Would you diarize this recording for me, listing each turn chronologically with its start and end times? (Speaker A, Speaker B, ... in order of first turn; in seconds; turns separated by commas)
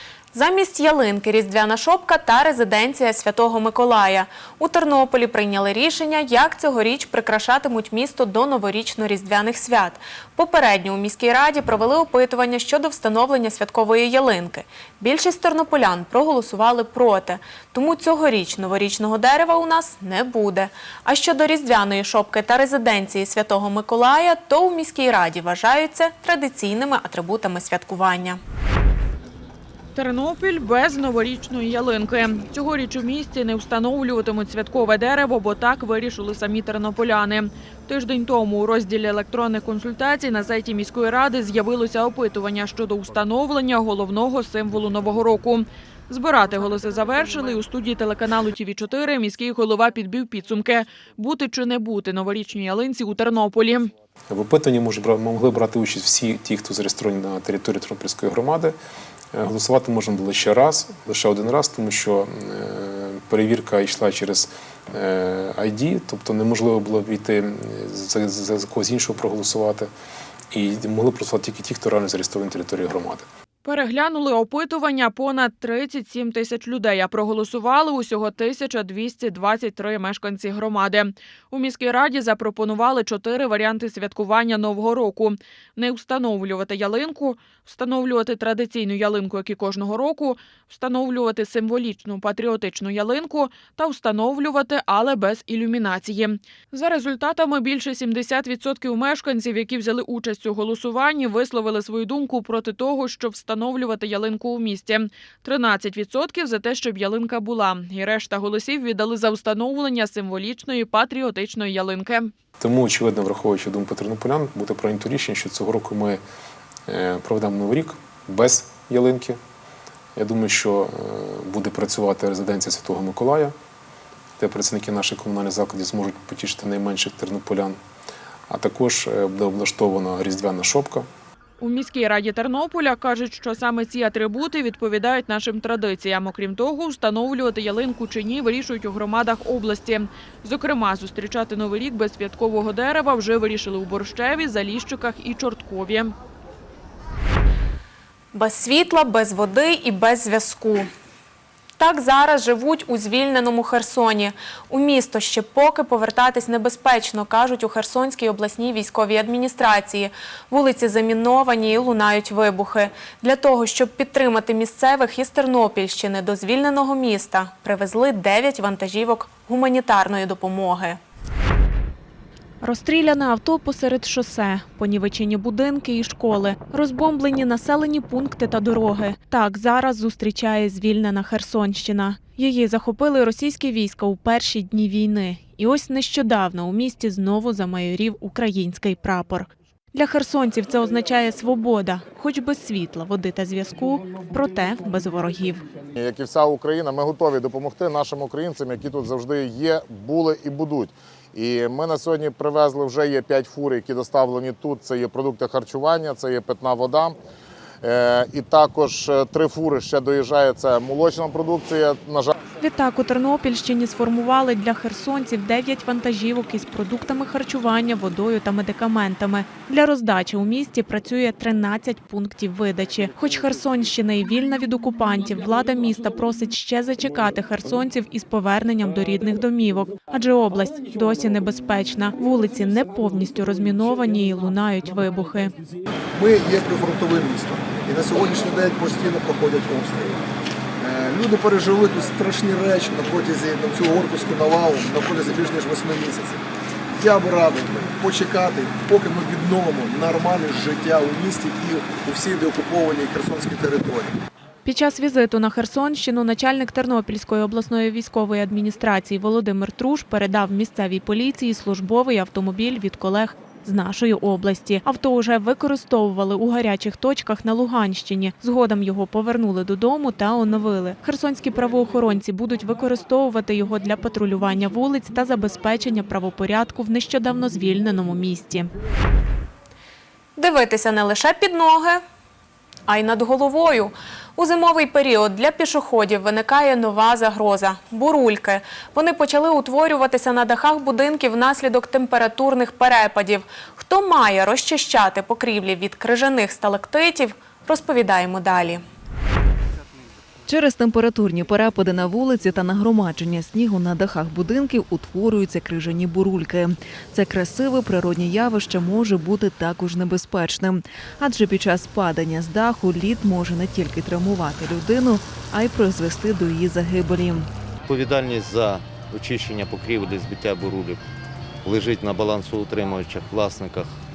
Speaker A: 0.3-28.4, Speaker B: 30.0-53.9, Speaker C: 54.3-58.7, Speaker C: 59.3-69.9, Speaker C: 70.5-73.3, Speaker B: 73.7-112.3, Speaker C: 112.6-116.2, Speaker C: 116.9-119.4, Speaker C: 120.2-123.5, Speaker C: 124.4-127.8, Speaker C: 128.5-131.1, Speaker B: 131.6-146.1, Speaker A: 148.3-150.9, Speaker A: 151.8-171.0, Speaker D: 172.6-195.6, Speaker E: 196.0-207.2, Speaker E: 207.8-212.3, Speaker D: 212.6-235.5, Speaker F: 236.4-240.1, Speaker F: 240.8-246.4, Speaker F: 247.0-254.1, Speaker D: 254.7-278.7, Speaker A: 280.4-282.0, Speaker A: 282.9-298.8, Speaker G: 300.5-317.5, Speaker H: 317.9-321.0, Speaker H: 321.6-323.9